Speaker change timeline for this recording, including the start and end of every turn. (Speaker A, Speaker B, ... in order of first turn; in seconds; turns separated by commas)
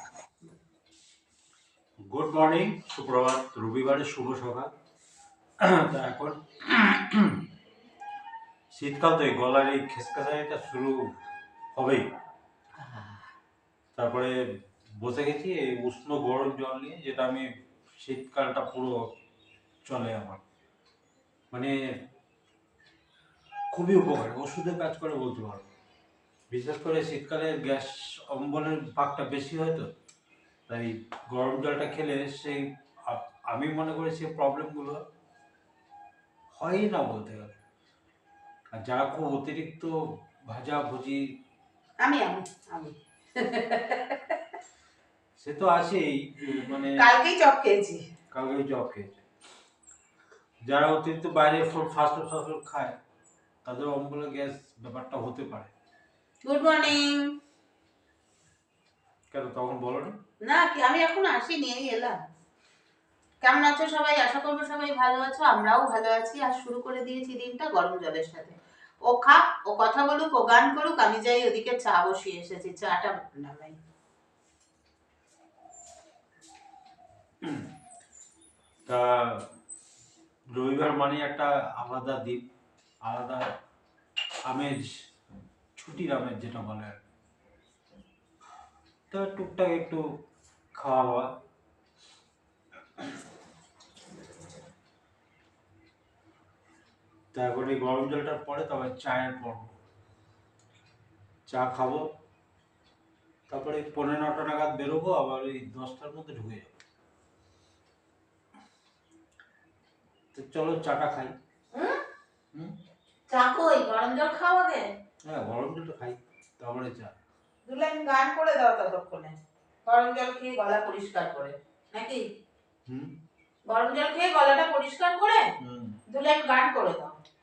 Speaker A: 2.1-4.7, Speaker A: 5.6-7.4, Speaker A: 8.7-11.1, Speaker A: 11.8-12.1, Speaker B: 12.8-13.1, Speaker A: 13.9-14.3, Speaker A: 15.0-17.5, Speaker A: 18.0-19.0, Speaker A: 19.9-20.4, Speaker A: 23.7-25.7, Speaker A: 26.5-29.9, Speaker A: 30.7-35.0, Speaker A: 36.6-37.6, Speaker A: 38.7-40.0, Speaker A: 40.5-41.2, Speaker B: 42.0-44.4, Speaker A: 45.4-47.0, Speaker B: 47.0-48.0, Speaker A: 48.3-49.2, Speaker A: 50.7-52.9, Speaker A: 53.6-55.7, Speaker B: 56.4-57.2, Speaker A: 59.3-60.2, Speaker B: 60.4-62.2, Speaker B: 63.4-68.6, Speaker B: 69.1-73.8, Speaker A: 78.9-79.5, Speaker A: 80.5-82.5, Speaker A: 83.0-83.5, Speaker A: 84.5-84.9, Speaker A: 85.8-87.0, Speaker A: 89.1-90.0, Speaker A: 90.8-91.4, Speaker A: 97.3-99.8, Speaker A: 101.5-102.1, Speaker A: 103.5-106.8, Speaker A: 110.3-111.3, Speaker B: 113.3-114.9, Speaker A: 115.2-117.2, Speaker B: 117.7-122.2, Speaker A: 122.9-123.1, Speaker B: 123.7-125.4, Speaker A: 125.6-126.0, Speaker B: 126.1-127.2